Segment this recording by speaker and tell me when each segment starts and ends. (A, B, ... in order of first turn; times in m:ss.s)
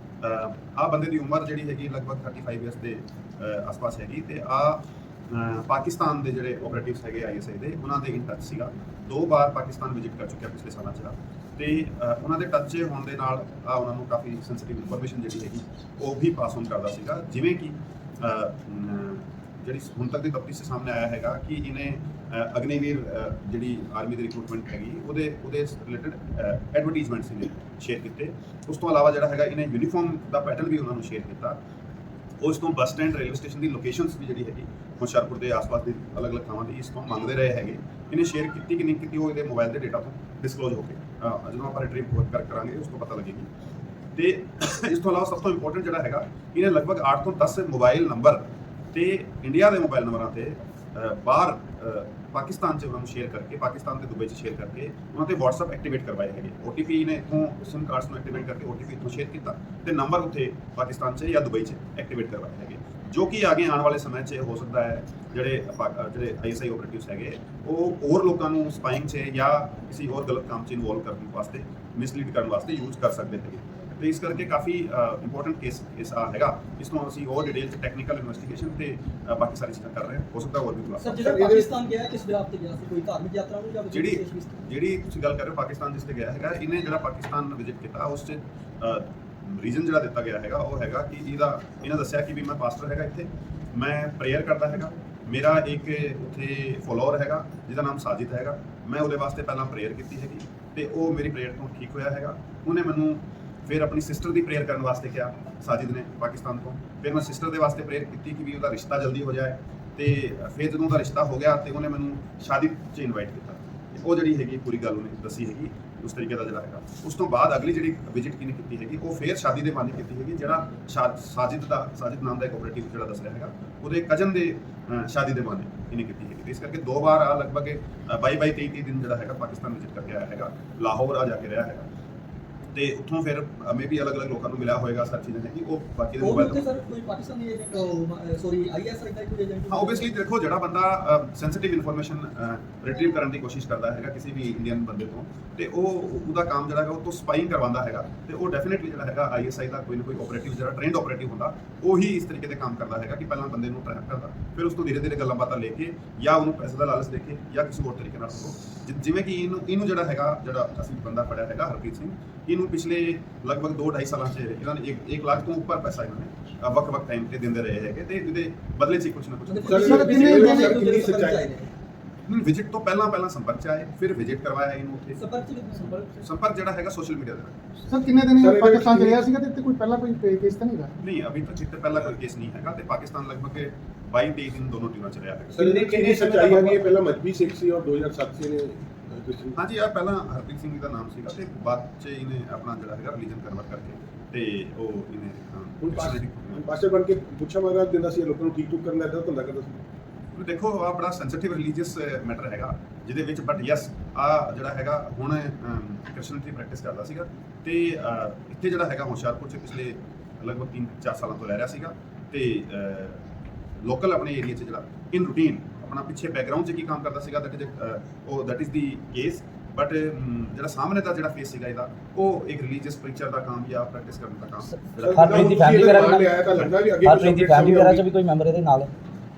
0:00.2-0:31.6 A
0:32.4-0:43.5 A
0:44.2-1:21.2 A
1:21.0-1:24.6 B
1:21.2-1:21.7 C
1:23.9-2:11.9 A
2:12.7-2:16.7 A
2:16.2-2:20.1 B
2:19.7-2:50.6 A
2:49.5-2:51.7 B
2:49.7-2:51.5 C
2:49.9-2:50.7 D
2:52.3-2:55.2 A
2:55.2-2:56.2 B
2:56.2-2:57.6 A
2:57.9-3:00.9 D
2:58.4-2:59.2 C
3:01.0-3:05.8 A
3:05.5-3:09.6 C
3:05.6-3:06.8 E
3:09.6-3:16.6 A
3:15.8-3:19.8 C
3:20.3-3:33.2 A
3:33.8-3:46.7 A
3:45.0-3:48.0 C
3:45.1-3:46.3 E
3:47.0-3:48.9 E